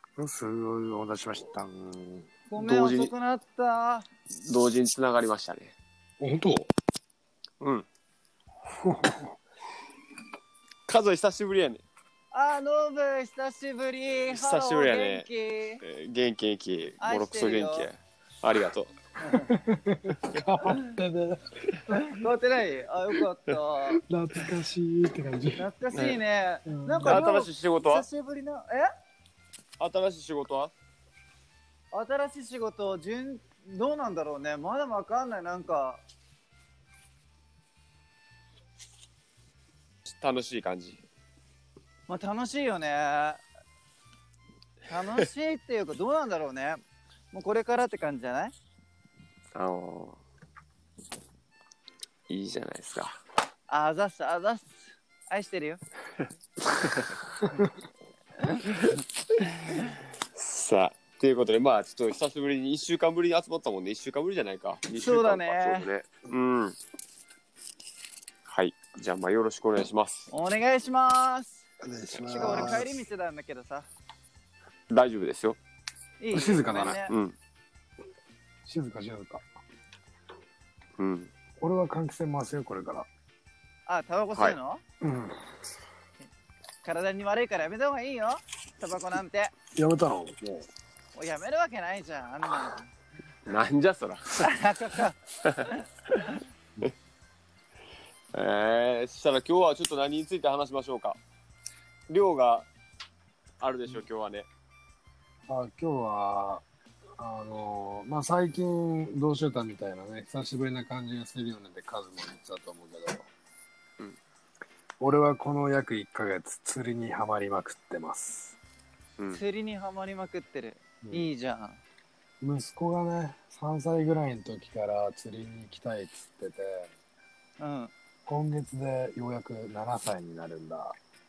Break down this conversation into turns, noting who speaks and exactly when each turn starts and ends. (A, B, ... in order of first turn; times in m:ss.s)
0:00.2-0:02.3 A
0:02.5-0:04.1 B
0:02.6-0:03.1 C
0:04.4-0:05.7 C
0:06.2-0:06.7 A
0:07.6-0:07.9 C
0:08.7-0:09.4 A
0:10.9-0:11.8 C
0:12.3-0:15.8 B
0:14.3-0:15.3 C
0:15.8-0:19.1 C
0:17.0-0:17.9 B
0:19.2-0:19.6 B
0:19.5-0:22.1 A
0:22.0-0:24.0 B
0:24.1-0:25.7 A
0:25.6-0:28.9 B
0:25.9-0:26.2 C
0:26.7-0:27.2 A
0:27.0-0:28.1 C
0:29.8-0:30.7 C
0:31.9-0:36.0 B
0:40.1-0:41.0 C
0:42.1-0:43.4 B
0:44.9-0:46.8 B
0:47.3-0:48.5 B
0:49.6-0:50.2 C
0:52.3-0:53.2 C
0:53.7-0:55.8 B
0:56.7-0:57.2 C
0:59.8-1:06.8 C
1:04.9-1:05.9 B
1:08.5-1:10.3 C
1:10.3-1:11.6 B
1:11.8-1:13.0 A
1:12.2-1:13.9 B
1:12.4-1:12.8 C
1:14.9-1:15.6 C
1:16.2-1:17.2 B
1:16.3-1:17.0 A
1:17.1-1:17.4 C
1:18.7-1:19.4 A
1:21.0-1:21.3 C
1:21.6-1:23.1 A
1:23.9-1:24.8 B
1:25.0-1:25.4 A
1:26.8-1:29.5 B
1:29.7-1:30.7 A
1:31.2-1:32.9 B
1:33.5-1:34.6 C
1:34.4-1:35.2 B
1:38.3-1:41.2 C
1:42.1-1:42.7 C
1:43.6-1:44.5 C
1:45.5-1:46.6 A
1:47.2-1:53.3 A
1:55.0-1:58.6 A
1:59.3-2:01.8 B
2:01.0-2:01.3 A
2:02.4-2:06.9 A
2:07.6-2:07.9 B
2:08.3-2:11.0 A